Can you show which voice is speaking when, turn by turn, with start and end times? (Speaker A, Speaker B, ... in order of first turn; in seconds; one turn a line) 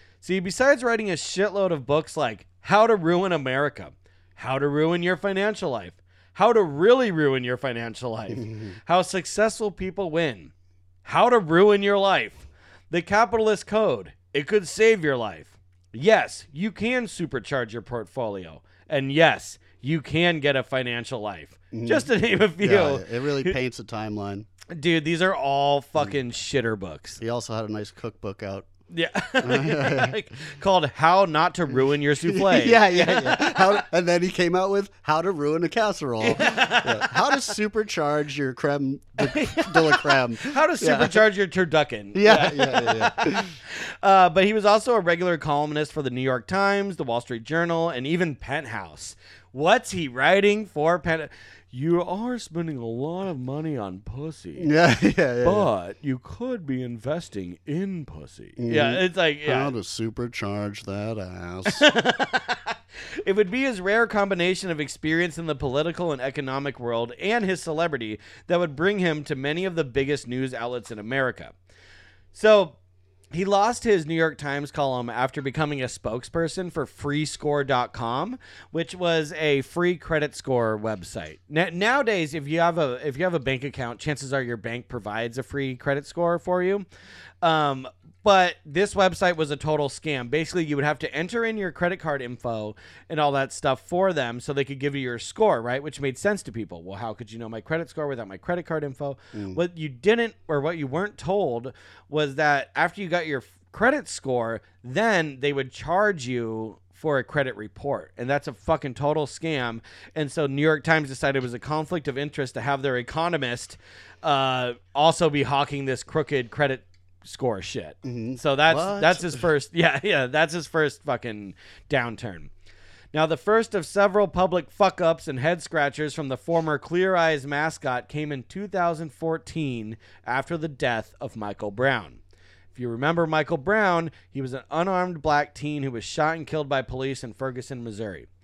Speaker A: 0.2-10.5
Speaker B: 8.3-8.7
Speaker A: 11.0-23.5
Speaker B: 21.7-22.1
Speaker B: 22.6-24.5
Speaker A: 24.7-27.2
Speaker B: 27.2-28.7
Speaker A: 28.9-33.8
Speaker B: 29.4-30.1
Speaker B: 31.7-41.2
Speaker A: 36.2-37.5
Speaker A: 39.2-54.7
Speaker B: 42.1-43.5
Speaker B: 54.6-55.7
Speaker A: 55.4-59.7
Speaker B: 58.6-61.8
Speaker A: 61.7-71.5
Speaker A: 72.3-72.8
Speaker A: 73.3-86.8
Speaker A: 87.4-122.5
Speaker B: 99.3-99.6
Speaker B: 118.0-119.4
Speaker A: 123.1-132.2
Speaker A: 132.7-138.3